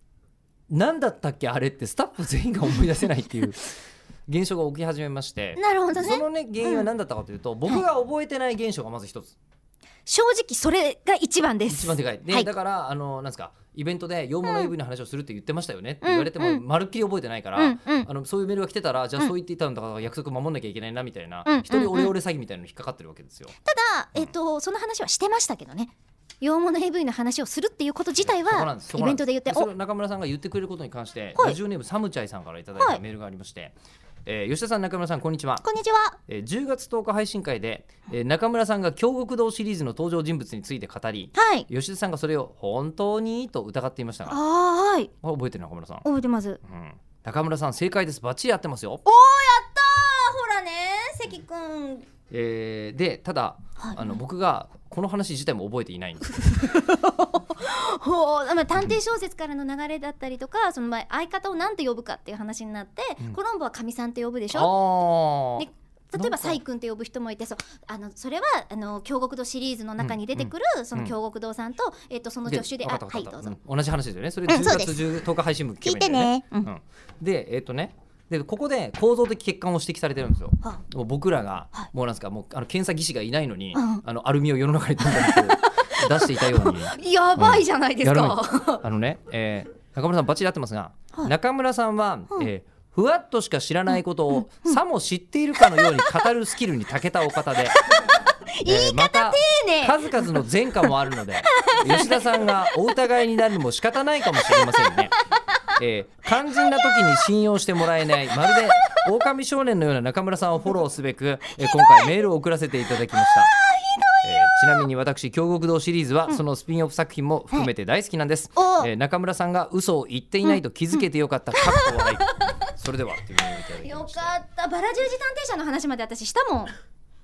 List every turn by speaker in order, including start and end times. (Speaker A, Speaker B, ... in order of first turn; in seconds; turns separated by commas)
Speaker A: 0.7-3.7, Speaker A: 4.3-9.3, Speaker B: 5.6-6.9, Speaker B: 10.1-12.5, Speaker A: 11.7-23.5, Speaker B: 14.4-14.7, Speaker B: 16.0-16.6, Speaker B: 17.6-18.1, Speaker B: 21.4-22.1, Speaker B: 23.6-29.7, Speaker A: 28.2-33.7, Speaker A: 34.2-35.6, Speaker B: 35.6-36.2, Speaker A: 36.3-44.4, Speaker B: 41.3-41.7, Speaker B: 44.3-45.1, Speaker A: 45.2-46.0, Speaker B: 46.0-46.6, Speaker A: 46.6-49.0, Speaker B: 49.0-52.0, Speaker A: 52.3-56.6, Speaker B: 53.8-54.1, Speaker B: 56.4-64.7, Speaker A: 64.5-66.6, Speaker B: 65.6-73.5, Speaker A: 70.0-71.1, Speaker A: 72.5-97.8, Speaker B: 74.5-75.0, Speaker B: 75.8-76.7, Speaker B: 83.7-84.0, Speaker B: 85.0-85.6, Speaker B: 86.2-88.8, Speaker B: 98.6-100.9, Speaker A: 98.6-105.2, Speaker B: 101.4-102.7, Speaker B: 104.3-105.0, Speaker A: 105.7-113.5, Speaker B: 106.6-107.0, Speaker B: 108.3-109.0, Speaker B: 111.6-112.2, Speaker B: 113.2-114.8, Speaker A: 114.2-124.4, Speaker B: 118.6-118.9, Speaker B: 120.4-122.6, Speaker B: 123.8-126.7